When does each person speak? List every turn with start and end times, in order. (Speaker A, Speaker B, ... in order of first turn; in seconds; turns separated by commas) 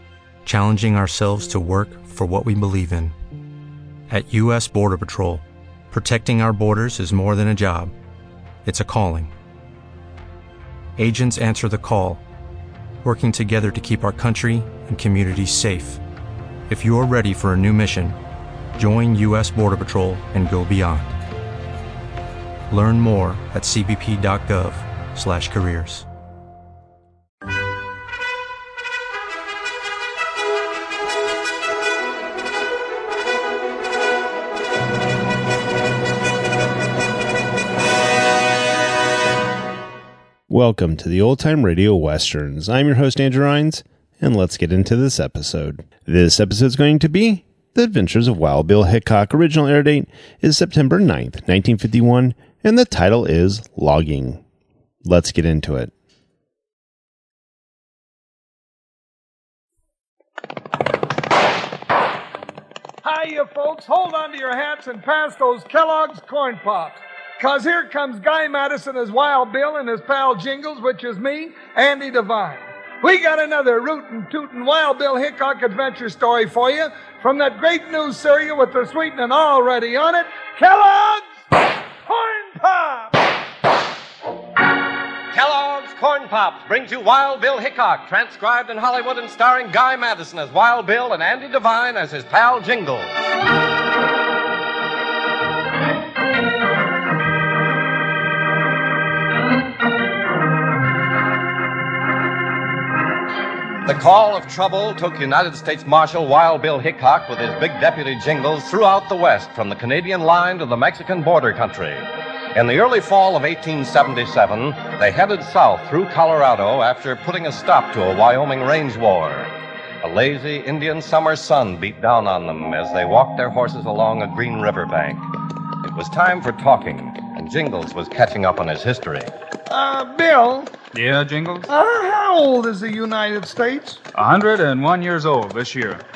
Speaker A: 0.4-3.1, Speaker A: 4.1-7.9, Speaker A: 8.6-9.3, Speaker A: 11.0-12.2, Speaker A: 13.0-16.0, Speaker A: 16.7-18.2, Speaker A: 18.7-21.2, Speaker A: 22.7-26.1, Speaker B: 40.5-54.4, Speaker B: 55.0-55.9, Speaker C: 63.0-81.3, Speaker C: 82.1-83.1, Speaker D: 85.3-93.3, Speaker D: 103.8-119.5, Speaker D: 120.0-125.3, Speaker D: 125.8-129.3, Speaker C: 129.7-130.7, Speaker E: 130.9-131.7, Speaker C: 131.7-134.0, Speaker E: 134.1-136.0